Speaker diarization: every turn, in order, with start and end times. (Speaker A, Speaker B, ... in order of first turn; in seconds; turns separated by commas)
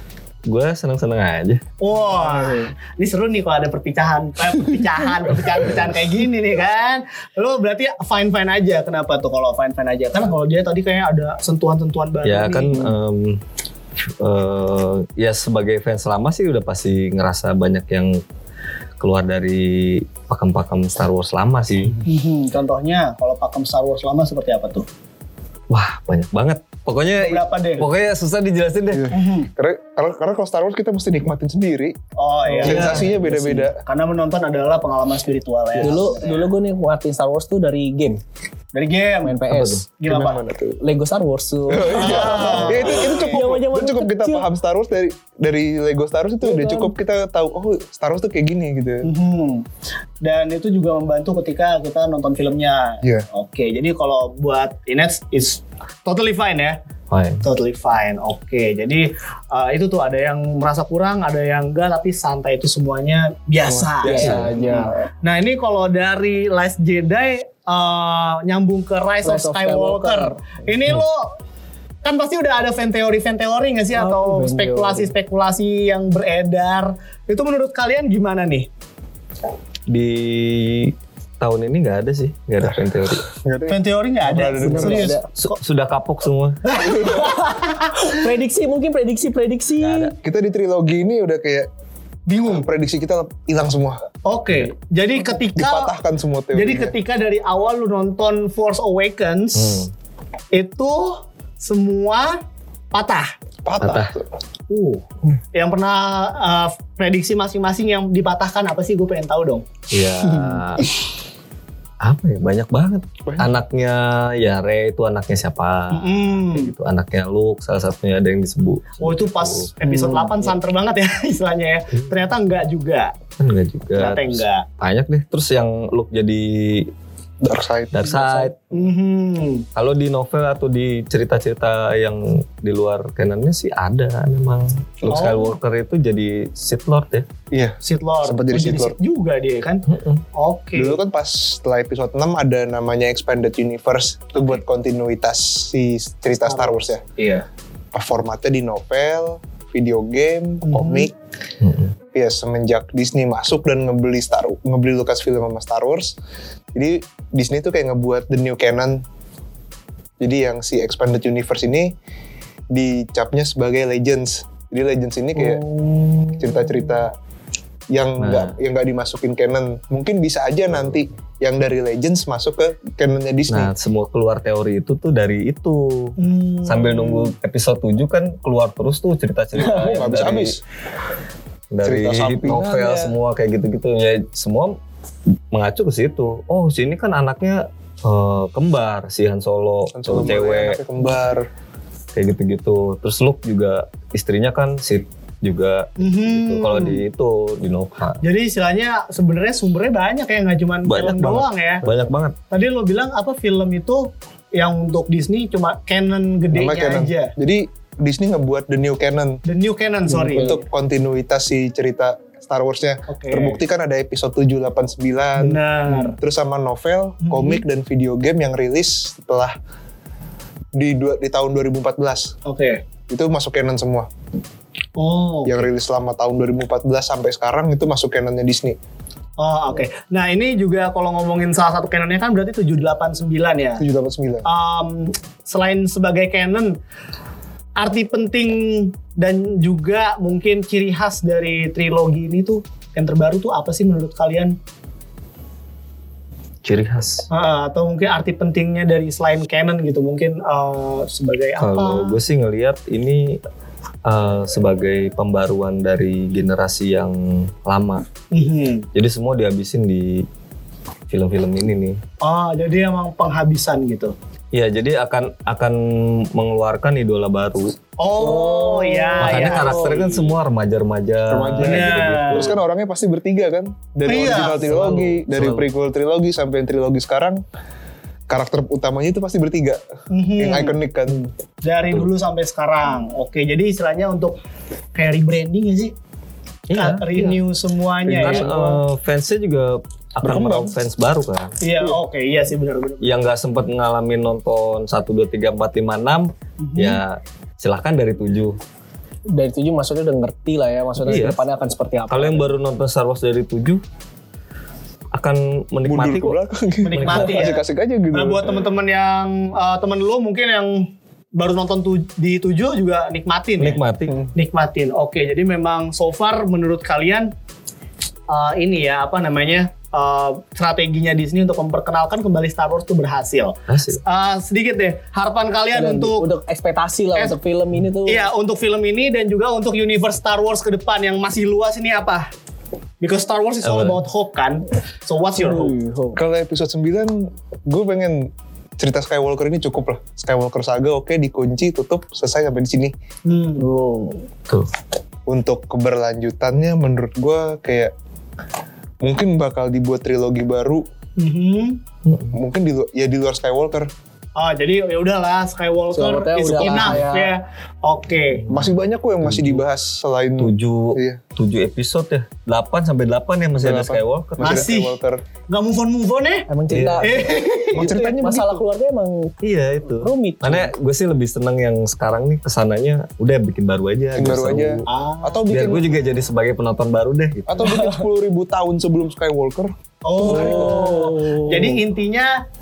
Speaker A: 0.5-1.6, Speaker B: 1.8-12.9, Speaker A: 12.2-13.4, Speaker A: 14.2-18.2, Speaker A: 19.0-22.0, Speaker B: 22.1-24.9, Speaker A: 25.7-29.1, Speaker B: 27.2-27.9, Speaker C: 28.9-32.0, Speaker B: 29.1-29.5, Speaker B: 32.2-33.0, Speaker C: 32.6-33.8, Speaker A: 32.6-33.1, Speaker D: 32.6-33.7, Speaker B: 33.9-36.5, Speaker D: 35.8-38.2, Speaker B: 38.7-39.4, Speaker D: 39.2-39.9, Speaker A: 39.5-39.8, Speaker B: 40.0-40.4, Speaker C: 40.1-40.8, Speaker D: 40.8-44.5, Speaker C: 41.7-49.1, Speaker B: 41.9-43.2, Speaker D: 46.4-46.9, Speaker B: 49.0-49.6, Speaker B: 50.2-56.8, Speaker A: 57.1-57.5, Speaker B: 57.4-71.3, Speaker C: 63.7-64.5, Speaker D: 64.0-65.0, Speaker A: 64.2-64.5, Speaker D: 69.2-70.6, Speaker B: 72.0-78.7, Speaker D: 73.9-75.1, Speaker A: 79.9-83.2, Speaker C: 83.3-85.1, Speaker B: 83.7-85.6, Speaker D: 84.6-85.2, Speaker A: 85.4-86.6, Speaker B: 86.7-88.2, Speaker D: 87.0-87.5, Speaker D: 88.0-90.1, Speaker A: 89.8-90.1, Speaker C: 90.2-91.7, Speaker B: 92.3-92.7, Speaker C: 92.4-94.0, Speaker B: 94.2-96.0, Speaker C: 95.5-97.0, Speaker B: 96.5-99.8, Speaker A: 99.5-99.9, Speaker B: 100.5-102.4, Speaker B: 102.9-103.3, Speaker C: 103.6-104.3, Speaker A: 103.8-104.1, Speaker B: 104.7-109.7, Speaker A: 109.9-110.9, Speaker A: 112.0-119.7, Speaker C: 113.3-113.5, Speaker B: 115.9-116.7, Speaker B: 119.0-123.1, Speaker D: 119.8-120.5, Speaker A: 123.4-126.9, Speaker B: 124.0-124.7, Speaker C: 127.4-128.5, Speaker A: 127.9-128.6, Speaker B: 128.7-129.7, Speaker A: 129.8-137.3, Speaker C: 135.0-135.3, Speaker B: 135.1-135.6, Speaker C: 137.5-139.0, Speaker B: 137.8-141.0, Speaker A: 139.9-140.2, Speaker C: 140.8-147.0, Speaker B: 146.4-147.5, Speaker C: 147.9-151.1, Speaker B: 150.6-151.1, Speaker A: 151.6-151.9, Speaker C: 152.1-156.2, Speaker C: 156.8-159.0, Speaker C: 160.2-161.9, Speaker C: 162.7-165.6, Speaker D: 165.4-167.0, Speaker C: 166.4-167.1, Speaker C: 167.9-173.7, Speaker A: 168.2-168.5, Speaker A: 173.5-180.6, Speaker B: 176.2-177.3, Speaker D: 179.6-180.1, Speaker C: 179.8-180.6, Speaker A: 181.7-184.8, Speaker C: 181.8-183.1, Speaker A: 185.5-190.8, Speaker C: 189.9-191.5, Speaker A: 192.2-198.2, Speaker B: 196.0-197.0, Speaker B: 198.2-201.8, Speaker A: 200.8-202.3, Speaker B: 202.5-207.3, Speaker C: 206.5-209.4, Speaker B: 209.4-210.6, Speaker D: 210.2-210.6, Speaker C: 210.3-219.5, Speaker B: 213.1-213.6, Speaker B: 215.4-216.2, Speaker B: 217.2-217.6, Speaker C: 220.8-222.3, Speaker B: 222.5-222.8, Speaker C: 223.1-224.1, Speaker B: 225.0-225.6, Speaker C: 225.4-228.8, Speaker B: 229.4-233.8, Speaker C: 233.8-234.5, Speaker B: 234.4-236.8, Speaker B: 237.8-244.6, Speaker A: 246.6-247.3, Speaker B: 247.3-252.2, Speaker A: 251.6-253.4, Speaker A: 254.1-258.0, Speaker B: 258.3-258.9, Speaker A: 258.9-260.3, Speaker A: 261.1-262.0, Speaker B: 262.2-264.1, Speaker A: 264.5-265.8, Speaker A: 266.3-267.8, Speaker B: 268.0-270.3, Speaker D: 268.2-270.0, Speaker A: 269.2-272.6, Speaker C: 271.3-277.4, Speaker B: 271.6-272.5, Speaker B: 274.1-274.7, Speaker A: 274.5-275.7, Speaker C: 278.3-279.8, Speaker B: 280.1-280.8, Speaker C: 280.4-281.2, Speaker B: 281.6-284.4, Speaker B: 285.0-285.9, Speaker A: 286.7-287.4, Speaker B: 286.7-288.6, Speaker C: 288.1-288.7, Speaker A: 288.1-291.5, Speaker C: 290.2-290.8, Speaker B: 291.6-293.2, Speaker A: 293.0-298.6, Speaker B: 296.6-297.0, Speaker D: 299.3-302.6, Speaker A: 301.0-301.4, Speaker A: 302.1-303.8, Speaker A: 305.1-306.4, Speaker C: 305.8-308.6, Speaker B: 306.8-307.6, Speaker A: 306.9-307.4, Speaker B: 308.1-313.8, Speaker A: 313.6-314.2, Speaker B: 314.3-317.3, Speaker B: 318.3-326.3, Speaker A: 323.7-324.0, Speaker D: 325.7-328.3, Speaker B: 328.1-332.3, Speaker B: 333.0-335.8, Speaker A: 333.6-334.0, Speaker D: 335.4-336.2, Speaker C: 336.1-342.9, Speaker B: 343.3-343.7, Speaker D: 343.6-344.3, Speaker C: 345.3-347.9, Speaker C: 349.0-350.9, Speaker B: 351.2-351.8, Speaker A: 352.1-352.3, Speaker C: 352.3-353.9, Speaker B: 354.4-358.5, Speaker D: 355.9-357.3, Speaker A: 358.5-359.6, Speaker C: 358.5-361.2, Speaker A: 360.4-364.6, Speaker C: 363.6-365.2, Speaker B: 364.4-364.9, Speaker B: 365.5-366.5, Speaker D: 366.5-369.4, Speaker A: 366.7-367.1, Speaker B: 367.0-367.9, Speaker C: 367.7-368.6, Speaker A: 369.4-374.8, Speaker D: 370.0-370.7, Speaker C: 374.2-376.0, Speaker B: 374.9-375.5, Speaker A: 375.5-377.7, Speaker C: 377.5-379.7, Speaker D: 377.6-378.0, Speaker B: 380.0-382.3, Speaker D: 380.2-381.8, Speaker C: 380.2-381.0